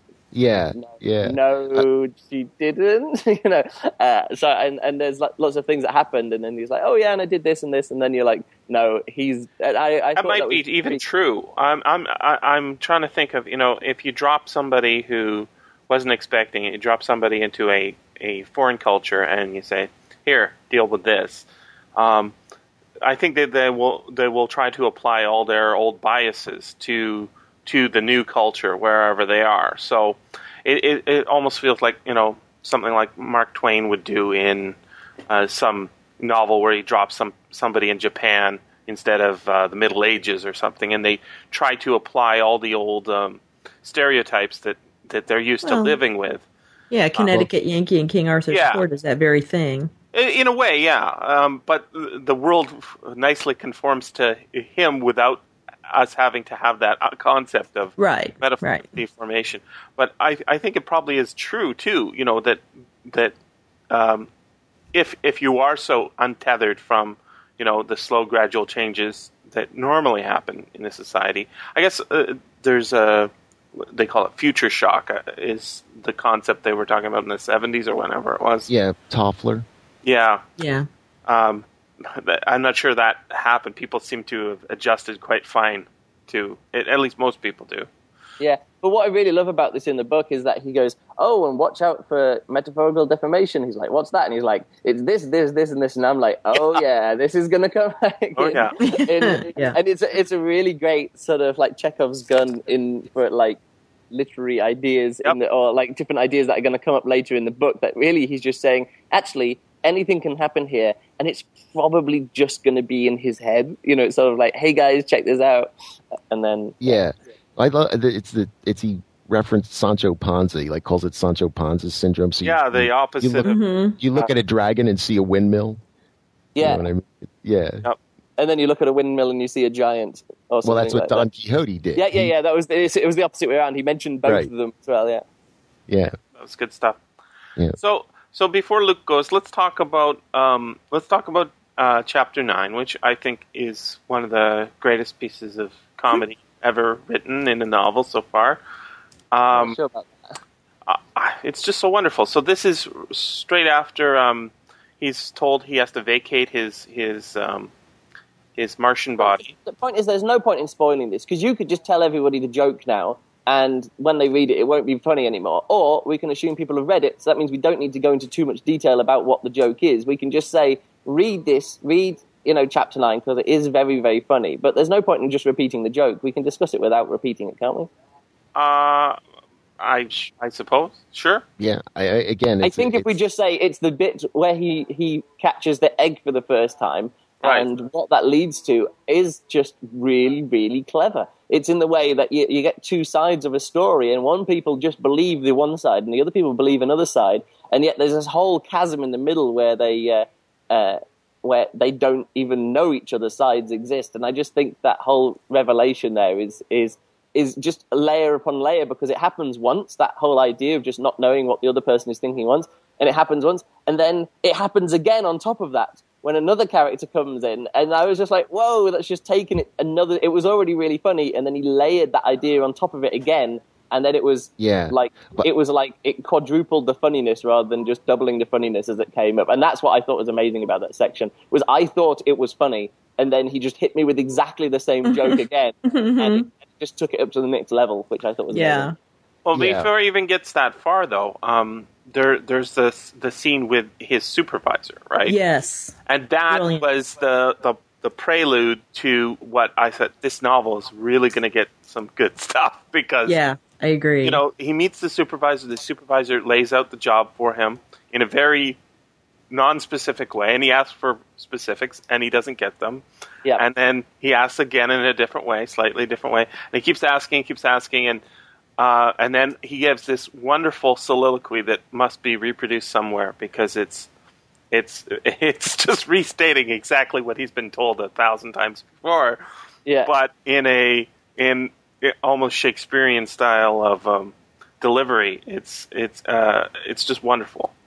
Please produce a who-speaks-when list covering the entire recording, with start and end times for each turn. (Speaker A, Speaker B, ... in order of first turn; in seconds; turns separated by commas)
Speaker A: 0.3-1.9, Speaker B: 0.8-11.0, Speaker C: 10.2-22.3, Speaker C: 23.0-34.8, Speaker C: 35.3-46.4, Speaker D: 45.6-46.0, Speaker D: 46.9-49.9, Speaker C: 48.5-48.8, Speaker C: 50.1-63.3, Speaker D: 58.0-58.9, Speaker C: 63.9-64.3, Speaker C: 64.9-78.7, Speaker A: 78.7-79.7, Speaker C: 80.0-80.4, Speaker D: 80.6-80.9, Speaker C: 81.2-87.9, Speaker B: 88.4-103.6, Speaker C: 98.4-98.8, Speaker D: 98.8-99.8, Speaker B: 104.1-115.7, Speaker B: 116.3-116.8, Speaker A: 116.8-125.8, Speaker C: 122.4-123.6, Speaker D: 123.4-124.0, Speaker B: 126.5-126.8, Speaker A: 126.6-127.8, Speaker B: 128.4-131.2, Speaker A: 130.6-132.3, Speaker B: 131.9-135.2, Speaker A: 135.9-136.1, Speaker C: 136.3-137.0, Speaker C: 137.8-148.6, Speaker C: 149.3-149.8, Speaker B: 149.5-150.2, Speaker C: 150.9-157.7, Speaker C: 158.6-159.5, Speaker B: 159.2-177.9, Speaker C: 178.5-179.2, Speaker C: 179.8-181.4, Speaker A: 181.6-183.2, Speaker B: 182.6-238.9, Speaker C: 187.4-187.7, Speaker A: 224.6-225.5, Speaker D: 235.9-236.5, Speaker D: 238.5-238.9, Speaker C: 239.4-245.3, Speaker A: 239.5-239.9, Speaker D: 245.2-245.9, Speaker C: 246.1-253.4, Speaker D: 246.5-246.8, Speaker D: 253.2-254.4, Speaker C: 254.2-258.8, Speaker C: 259.5-263.0, Speaker C: 263.6-268.2, Speaker C: 268.8-274.1, Speaker C: 274.7-279.4, Speaker B: 279.9-280.1, Speaker C: 280.1-287.7